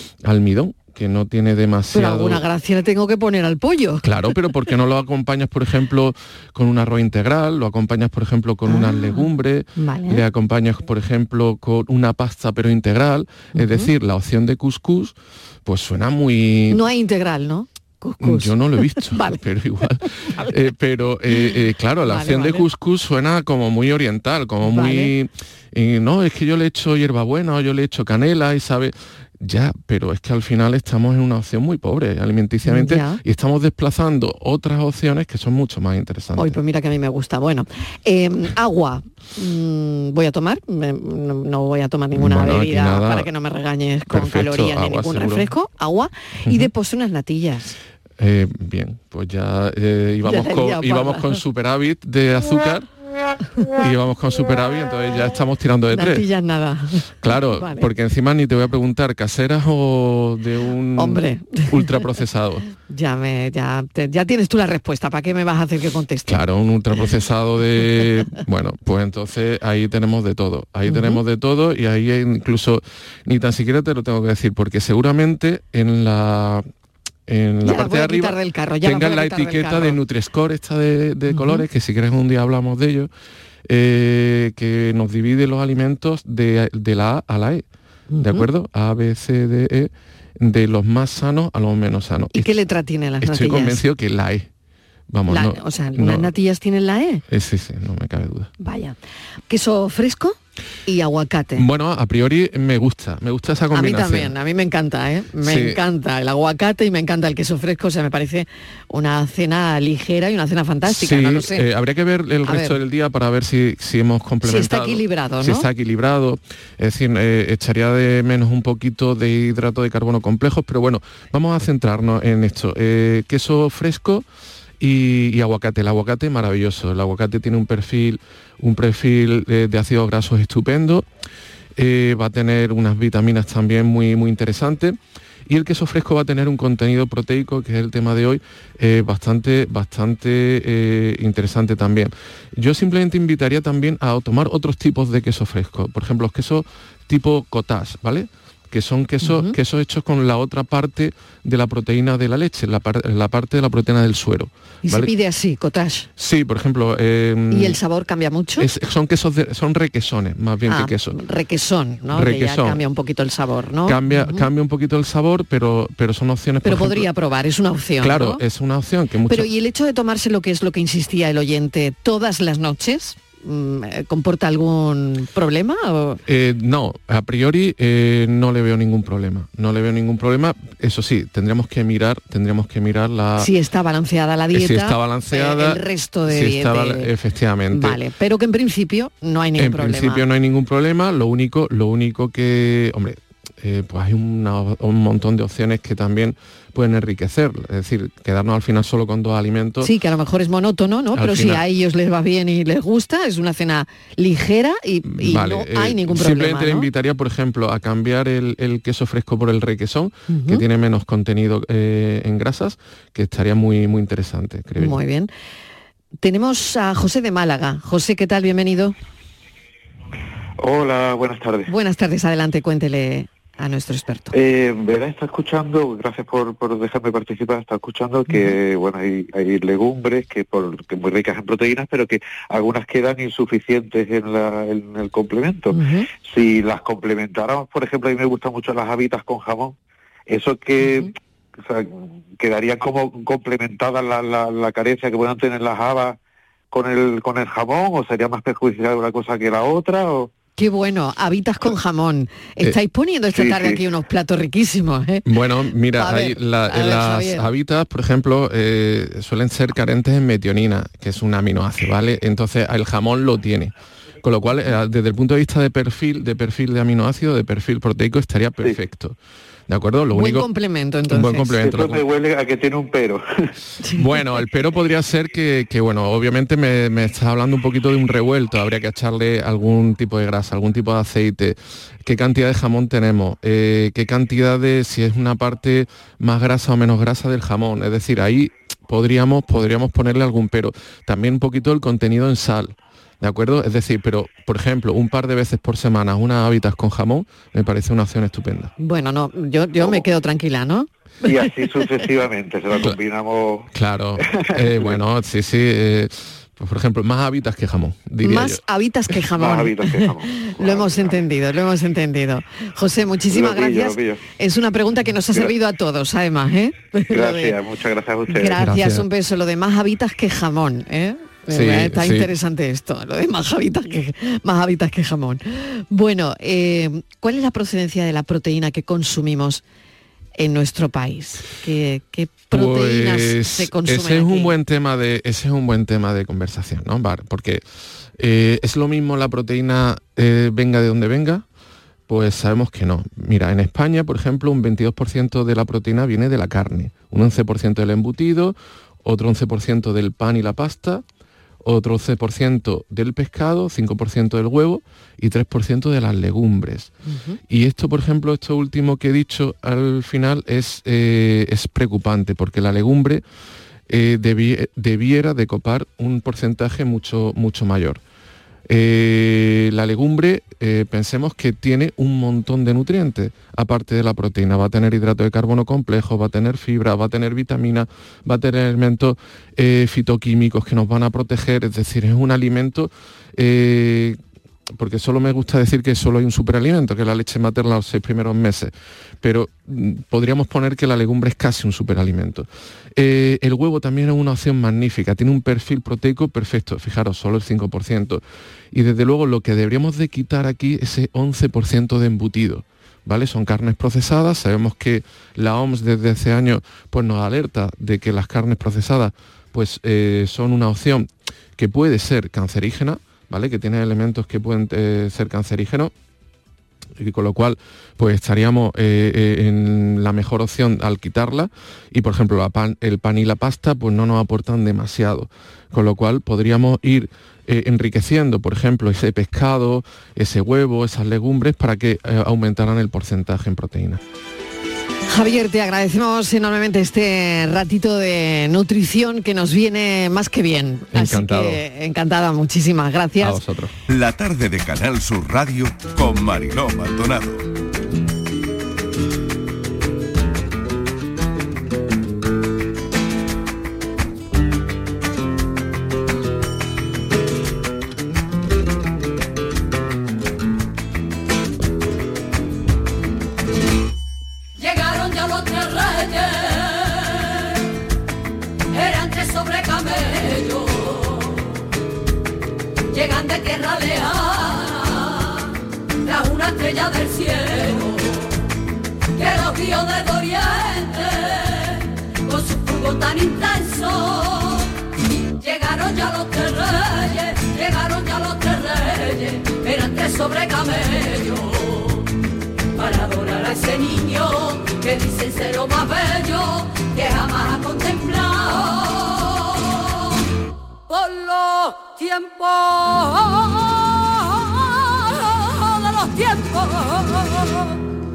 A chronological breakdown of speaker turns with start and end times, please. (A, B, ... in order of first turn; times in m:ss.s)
0:00.2-0:02.4 A
0:01.9-0:04.1 B
0:04.0-0:16.8 A
0:08.7-0:10.2 B
0:13.5-0:13.9 B
0:16.7-0:19.4 B
0:18.2-0:36.6 A
0:20.0-0:20.5 B
0:21.4-0:22.6 B
0:24.6-0:25.1 B
0:32.6-0:33.2 B
0:36.4-0:47.8 B
0:42.1-0:43.3 A
0:44.1-0:45.5 A
0:46.4-0:46.7 A
0:48.2-0:52.8 A
0:50.2-0:51.4 B
0:53.7-0:56.2 A
0:55.9-0:57.9 B
0:57.2-1:02.6 A
1:01.0-1:02.0 B
1:02.9-1:06.4 B
1:06.3-1:16.6 A
1:10.9-1:11.2 B
1:17.3-1:23.1 A
1:17.6-1:20.0 B
1:21.3-1:21.6 B
1:23.7-1:27.6 A
1:28.1-1:28.5 B
1:28.2-1:32.5 A
1:32.3-1:33.8 B
1:33.2-1:34.5 A
1:35.1-1:36.3 A
1:35.3-1:37.2 B
1:37.3-1:38.5 A
1:38.6-1:39.0 B
1:39.5-1:41.6 B
1:41.5-1:44.3 A
1:43.7-1:51.6 B
1:45.4-1:45.8 A
1:50.8-2:04.2 A
1:52.4-1:52.8 B
1:54.4-1:55.7 B
2:04.8-2:11.1 A
2:11.8-2:35.1 A
2:29.2-2:29.5 B
2:34.8-2:36.1 B
2:36.2-2:37.8 A
2:37.5-2:38.7 B
2:38.6-2:41.2 A
2:40.7-2:44.4 B
2:42.1-2:42.8 A
2:43.8-2:47.1 A
2:46.6-2:48.4 B
2:48.0-2:49.5 A
2:49.3-2:56.2 B
2:56.2-3:03.5 A
3:03.4-3:07.1 B
3:04.5-3:08.0 A
3:07.7-3:10.2 B
3:09.6-3:19.9 A
3:19.8-3:26.9 B
3:21.1-3:21.6 A
3:25.0-3:35.0 A
3:30.3-3:30.6 B
3:34.8-3:35.3 B
3:36.2-3:39.0 B
3:40.6-3:41.7 C
3:41.7-3:44.3 B
3:44.3-3:59.8 C
3:48.3-3:48.5 B
3:55.7-3:56.1 B
4:00.3-4:01.1 C
4:00.8-4:01.1 B
4:01.6-4:06.2 C
4:06.7-4:10.3 C
4:10.6-4:15.3 B
4:13.3-4:13.8 C
4:15.2-4:23.7 A
4:15.9-4:17.5 B
4:24.2-4:29.2 A
4:29.7-4:30.5 A
4:30.1-4:31.6 B
4:31.1-4:32.0 A
4:31.6-4:33.5 C
4:33.8-4:34.0 B
4:33.9-4:58.7 A
4:58.8-5:01.9 B
5:01.2-5:03.7 C
5:03.7-5:08.6 A
5:04.3-5:05.0 C
5:08.2-5:17.6 B
5:09.3-5:11.2 C
5:13.3-5:14.2 C
5:17.1-5:18.6 C
5:18.3-5:29.6 B
5:18.6-5:19.0 A
5:21.5-5:22.3 A
5:30.4-5:34.5 B
5:32.5-5:37.6 A
5:38.2-5:41.4 A
5:42.1-5:51.0 A
5:51.6-5:56.9 A
5:57.1-5:57.4 B
5:57.5-6:03.2 A
6:03.9-6:08.0 A
6:08.7-6:24.2 A
6:24.7-6:55.9 A
6:57.0-7:14.0 A
7:15.1-7:23.4 B
7:20.9-7:21.6 A
7:23.2-7:23.7 A
7:23.9-7:27.4 D
7:44.6-7:47.6 E
7:48.7-7:51.6 E
7:52.9-7:55.5 E
7:56.0-7:58.3 E
7:59.1-8:04.7 E
8:05.4-8:12.1 E
8:12.7-8:19.9 E
8:20.9-8:27.8 E